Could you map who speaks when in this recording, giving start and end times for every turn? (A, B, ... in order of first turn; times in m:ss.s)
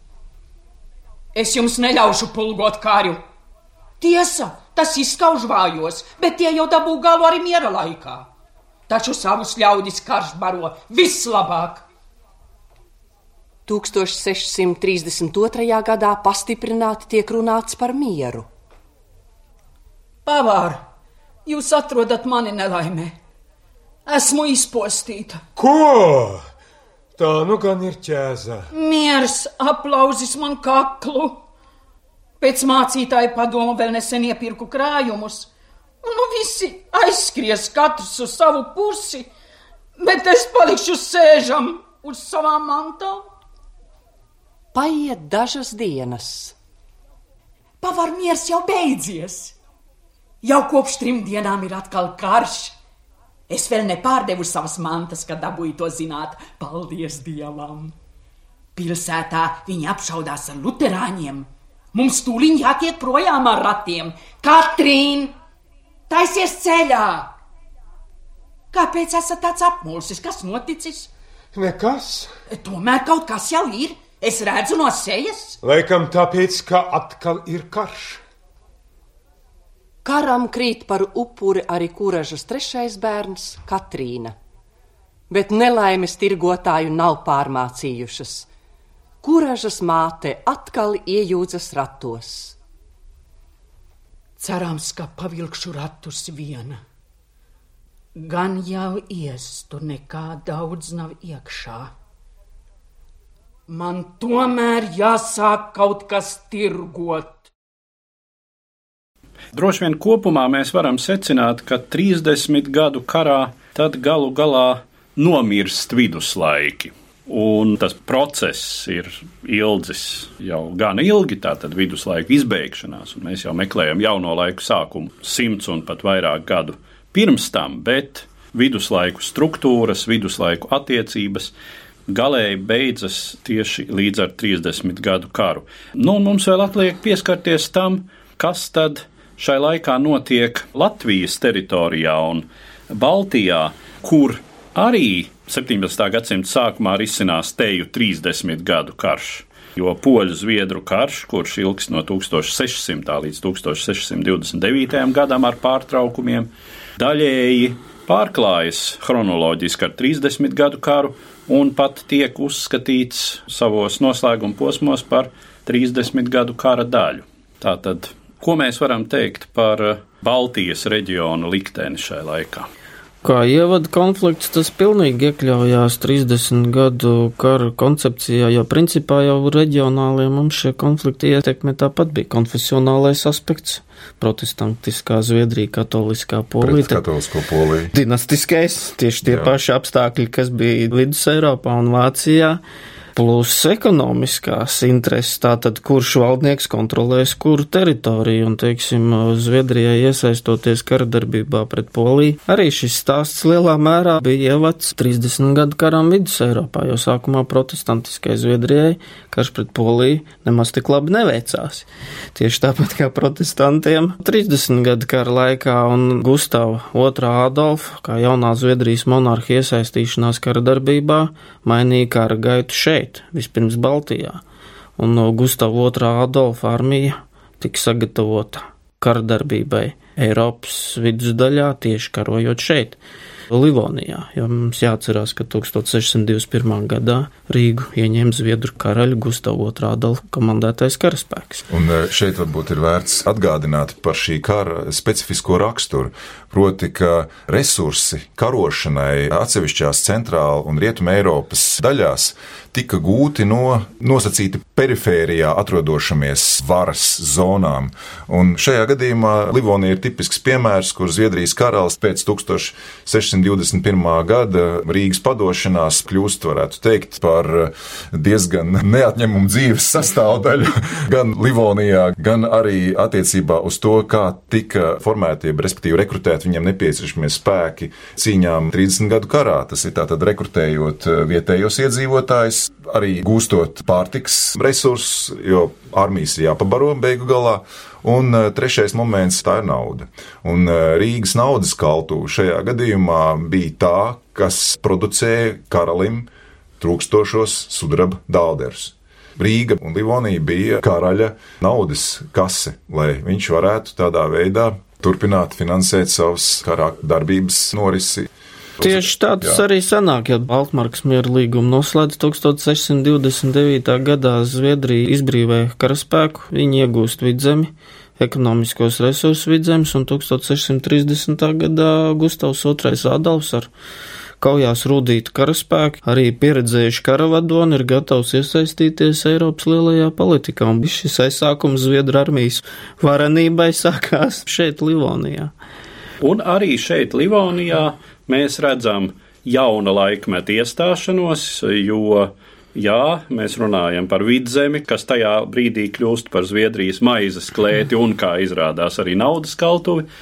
0:01.3-0:03.2 A
0:04.0-0:08.3 A
0:08.9-0:11.9 A
0:13.7-0:18.5 B
0:20.2-0:20.8 A
0:21.4-0:23.2 A
0:24.1-0:25.4 A
0:25.6-0:26.5 C
0:27.2-0:28.7 C
0:28.7-0:31.4 A
0:32.4-0:35.5 A
0:36.0-0:39.3 A
0:40.0-0:43.3 A
0:44.7-0:46.6 B
0:47.8-0:49.6 A
0:50.4-0:52.8 A
0:53.5-0:58.0 A
0:58.8-1:05.3 A
1:06.1-1:07.3 A
1:08.7-1:11.1 A
1:11.5-1:12.3 C
1:12.5-1:15.6 A
1:15.6-1:18.2 C
1:20.0-1:24.4 B
1:25.3-1:28.5 B
1:29.2-1:32.6 B
1:34.4-1:36.8 A
1:38.2-1:41.9 A
1:43.7-1:47.5 A
1:49.5-2:11.5 D
2:12.1-2:52.7 D
2:53.2-3:07.1 E
3:06.6-3:07.9 F
3:07.9-3:12.6 E
3:09.2-3:09.5 F
3:13.2-3:44.4 E
3:45.0-3:53.0 E
3:53.5-4:01.6 E
4:01.7-4:56.3 F
4:56.8-5:09.6 F
5:08.8-5:23.7 E
5:24.4-5:35.5 E
5:36.2-5:50.1 D